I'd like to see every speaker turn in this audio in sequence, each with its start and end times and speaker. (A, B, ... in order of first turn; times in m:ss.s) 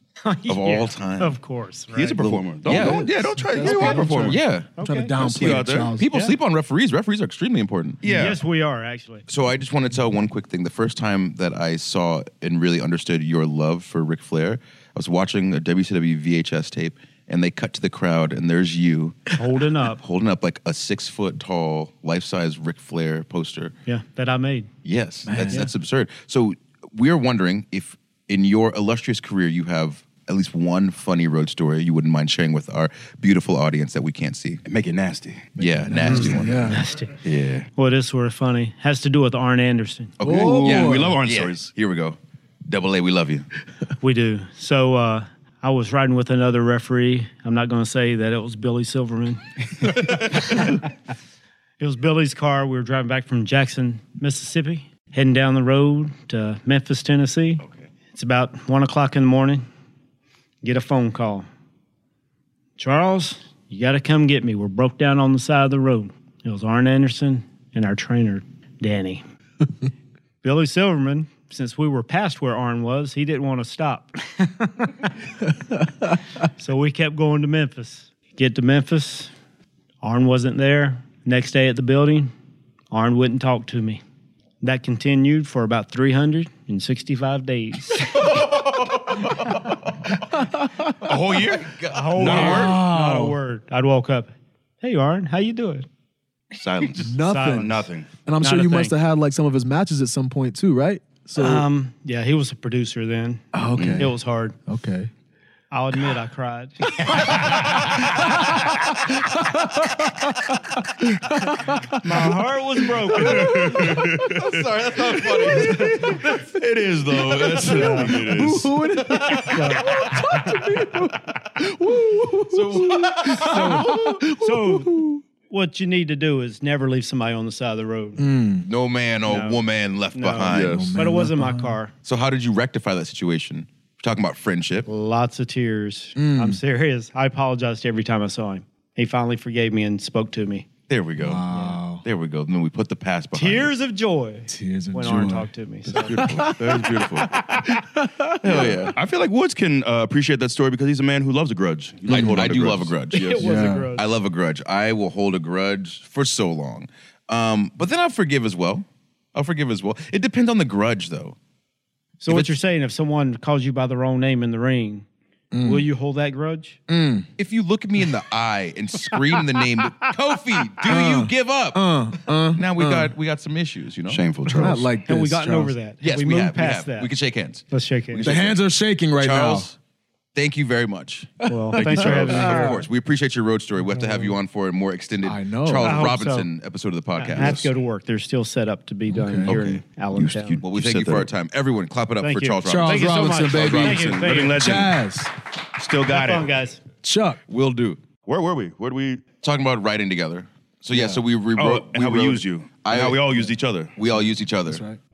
0:00.2-0:02.4 A
0:00.5-0:01.3 B
0:01.9-0:04.4 C
0:02.6-0:03.1 B
0:02.6-0:06.1 D
0:03.6-0:04.0 A
0:03.8-0:04.7 B
0:04.8-0:05.3 A
0:05.3-0:05.9 C
0:05.4-0:08.0 B
0:08.0-0:08.4 C
0:08.0-0:09.2 A
0:09.3-0:23.7 B
0:19.4-0:20.0 A
0:23.8-0:24.7 A
0:24.8-0:34.6 B
0:25.3-0:25.7 D
0:34.6-0:35.5 C
0:35.6-0:36.8 B
0:35.6-0:36.8 D
0:36.0-0:37.1 A
0:37.2-0:37.7 C
0:37.8-0:40.2 A
0:40.2-0:43.5 B
0:40.2-0:41.7 C
0:40.2-0:41.2 D
0:44.0-0:50.8 A
0:51.8-0:57.6 A
0:58.1-0:59.6 A
1:00.6-1:01.5 A
1:02.8-1:09.2 A
1:10.4-1:15.1 A
1:16.4-1:19.3 A
1:20.0-1:22.3 A
1:22.9-1:24.0 A
1:24.6-1:28.4 A
1:28.5-1:29.2 B
1:30.4-1:30.9 D
1:31.0-1:32.8 C
1:31.2-1:32.6 B
1:31.8-1:35.9 A
1:32.3-1:33.4 D
1:36.6-1:38.1 C
1:37.0-1:37.7 D
1:37.3-1:37.7 A
1:38.2-1:41.6 D
1:38.4-1:38.9 A
1:41.4-1:43.4 A
1:43.5-1:44.1 D
1:43.8-1:44.1 C
1:44.0-1:44.6 A
1:44.7-1:45.1 D
1:45.7-1:47.1 A
1:47.0-1:48.4 C
1:48.2-1:48.6 D
1:49.1-1:51.9 D
1:52.0-1:54.0 A
1:53.1-1:54.7 C
1:53.1-1:54.2 D
1:54.2-1:56.2 B
1:55.5-1:56.0 D
1:55.5-1:56.4 A
1:55.7-1:58.8 C
1:57.5-2:05.2 D
1:57.7-1:58.2 A
1:59.5-1:59.9 A
2:02.5-2:03.9 B
2:03.4-2:08.2 A
2:08.2-2:08.7 D
2:08.6-2:10.8 B
2:09.2-2:09.6 A
2:10.1-2:11.9 A
2:10.5-2:11.0 C
2:10.5-2:11.8 D
2:12.0-2:14.9 B
2:14.9-2:20.7 A
2:16.2-2:16.6 D
2:20.9-2:21.4 B
2:21.2-2:22.0 D
2:21.5-2:21.8 A
2:21.9-2:23.7 B
2:23.3-2:26.5 A
2:24.5-2:25.5 D
2:25.9-2:27.6 C
2:26.1-2:26.9 D
2:27.9-2:28.9 D
2:28.4-2:29.0 B
2:28.4-2:33.4 C
2:32.1-2:32.4 D
2:32.1-2:33.4 B
2:33.1-2:34.1 A
2:33.4-2:33.9 D
2:33.9-2:41.4 B
2:42.2-2:45.0 A
2:42.3-2:42.5 B
2:45.5-2:45.9 D
2:45.6-2:46.8 A
2:46.9-2:47.3 D
2:47.4-2:51.8 B
2:50.8-2:53.1 D
2:52.5-2:54.2 B
2:54.1-2:54.9 C
2:54.4-2:57.1 A
2:54.6-2:55.7 D
2:56.0-2:58.6 B
2:57.7-2:58.3 A
2:58.2-2:59.7 D
2:59.2-2:59.8 B
3:00.3-3:07.7 B
3:01.4-3:02.3 D
3:01.5-3:02.8 A
3:01.7-3:02.6 C
3:04.0-3:04.3 D
3:05.2-3:06.0 D
3:05.8-3:06.5 A
3:07.2-3:10.6 A
3:07.4-3:07.6 C
3:09.1-3:09.5 D
3:09.5-3:09.8 B
3:10.1-3:11.3 C
3:10.6-3:13.6 B
3:12.2-3:14.7 A
3:12.6-3:15.3 D
3:13.6-3:15.0 C
3:15.8-3:16.5 C
3:16.1-3:16.8 A
3:17.0-3:17.4 D
3:17.5-3:18.0 B
3:18.2-3:19.2 C
3:19.4-3:23.3 B
3:20.9-3:21.2 D
3:21.6-3:23.9 C
3:23.9-3:24.8 B
3:24.1-3:25.0 D